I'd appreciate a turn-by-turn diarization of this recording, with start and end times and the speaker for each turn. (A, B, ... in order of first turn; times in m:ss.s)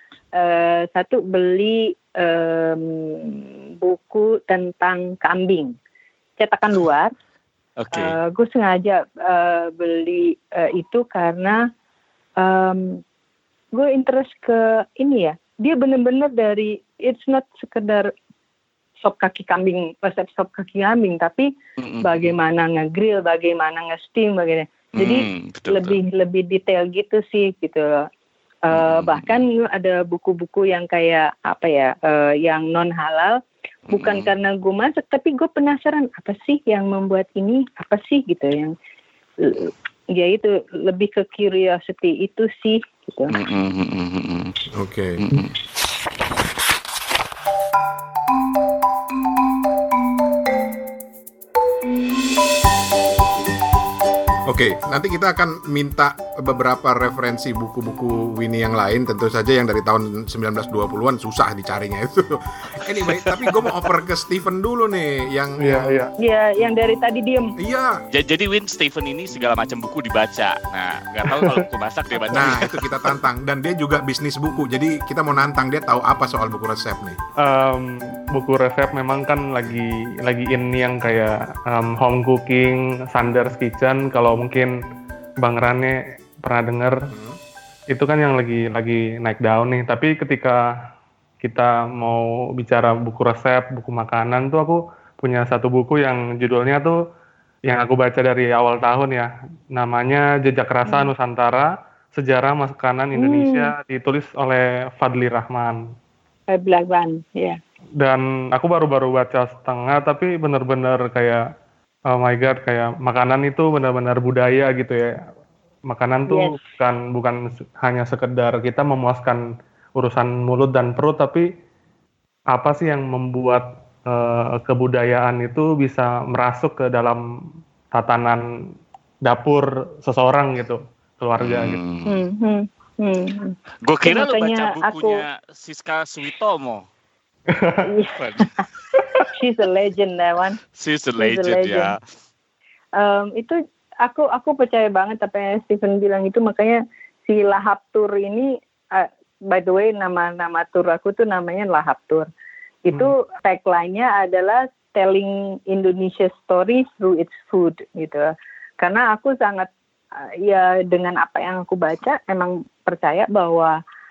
0:00.4-0:05.7 A
0:06.4-0:07.1 A
0:07.8-0:08.2 B
0:07.9-0:11.7 A
0:12.4-0:13.0 A
0:13.7-0:18.1 A
0:19.0-0:21.5 A
0:21.8-0:22.3 B
0:22.0-0:28.1 A
0:25.0-0:26.0 B
0:28.7-0:33.4 A
0:28.7-0:29.4 B
0:33.9-0:38.8 A
0:33.9-0:34.3 B
0:39.4-0:43.4 A
0:43.3-0:44.6 B
0:44.7-0:45.3 C
0:45.2-0:45.5 B
0:54.5-1:05.9 C
1:03.1-1:03.6 B
1:05.6-1:06.1 D
1:06.2-1:07.5 A
1:07.6-1:08.0 C
1:08.1-1:12.7 B
1:11.3-1:11.6 D
1:12.3-1:17.2 C
1:12.3-1:12.6 D
1:17.4-1:24.8 D
1:25.4-1:27.0 D
1:27.1-1:27.4 C
1:27.9-1:30.6 D
1:31.4-1:37.0 D
1:37.7-1:45.8 D
1:40.8-1:41.1 A
1:43.1-1:43.7 A
1:46.5-1:47.6 A
1:48.0-1:51.4 D
1:52.1-1:55.2 D
1:55.9-1:59.4 D
1:56.3-1:56.6 A
2:00.0-2:01.5 D
2:02.5-2:07.2 D
2:07.9-2:08.4 D
2:09.2-2:11.8 D
2:11.4-2:12.2 B
2:12.1-2:15.2 A
2:13.8-2:16.8 B
2:17.5-2:17.8 D
2:17.8-2:20.6 A
2:18.2-2:18.5 B
2:20.7-2:22.0 B
2:21.2-2:21.9 A
2:23.0-2:32.3 A
2:32.9-2:38.3 A
2:38.8-2:43.8 A